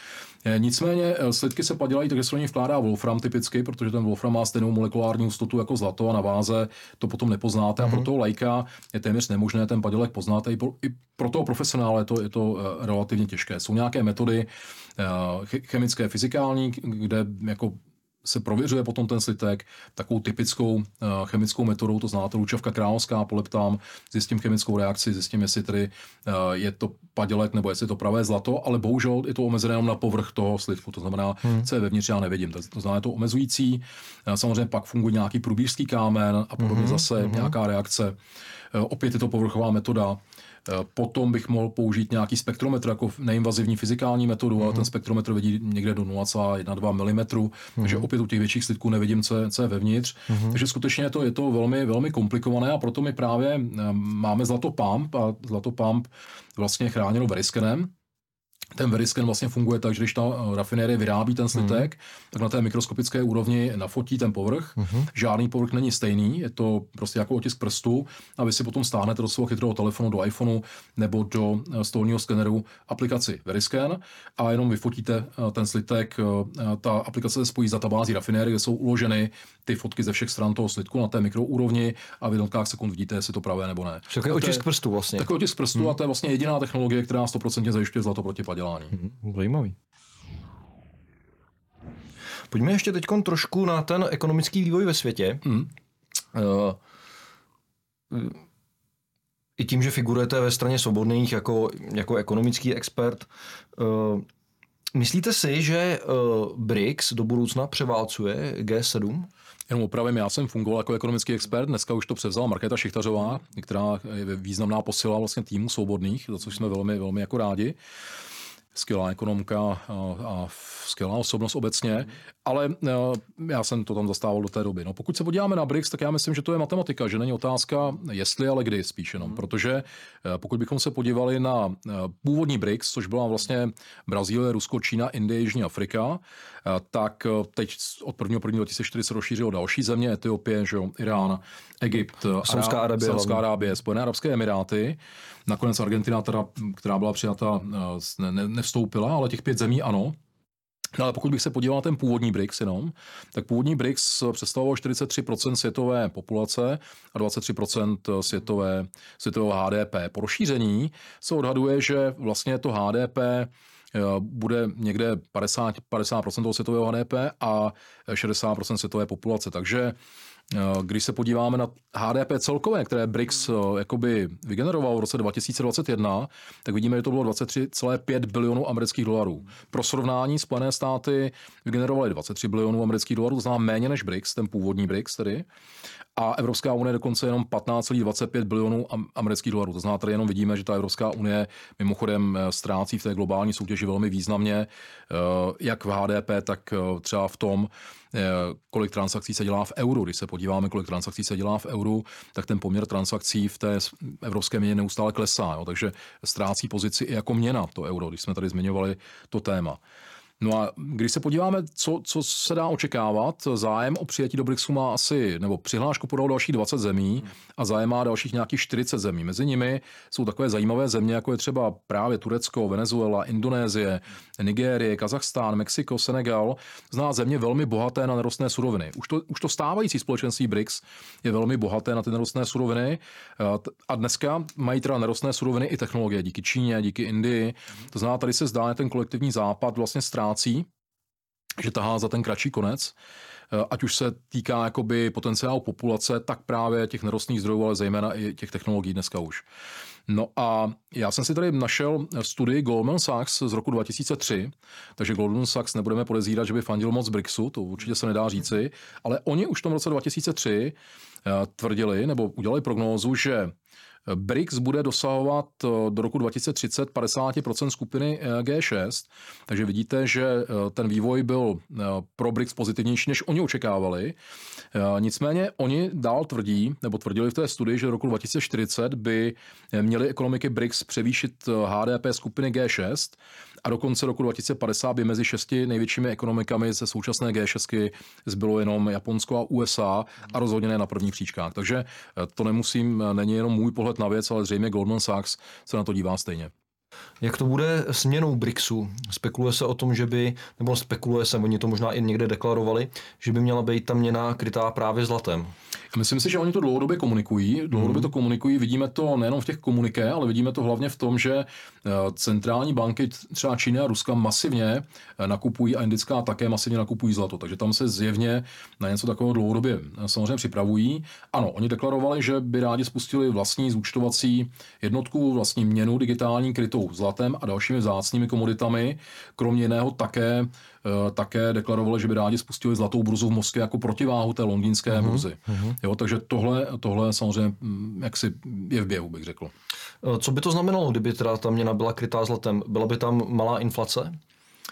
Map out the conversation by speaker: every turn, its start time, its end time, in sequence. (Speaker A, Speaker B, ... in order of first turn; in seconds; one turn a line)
Speaker A: 0.4-38.1
Speaker B: 36.6-37.5
Speaker A: 38.7-57.9
Speaker B: 50.3-50.6
Speaker A: 58.7-84.6
Speaker B: 64.8-65.1
Speaker B: 84.1-85.3
Speaker A: 85.2-88.9
Speaker B: 88.9-89.8
Speaker B: 92.5-95.6
Speaker B: 96.3-96.8
Speaker B: 98.1-98.4
Speaker B: 99.6-104.2
Speaker B: 104.9-109.3
Speaker A: 109.7-117.8
Speaker A: 118.7-150.1
Speaker B: 142.4-143.4
Speaker A: 151.0-170.0
Speaker A: 170.5-185.5
Speaker A: 186.1-209.8
Speaker A: 210.4-240.7
Speaker A: 241.6-242.9
Speaker A: 243.5-249.4
Speaker A: 250.1-263.5
Speaker A: 264.1-274.2
Speaker A: 274.7-296.5
Speaker B: 297.2-305.5
Speaker A: 305.9-339.5
Speaker B: 334.9-335.8
Speaker B: 340.0-344.2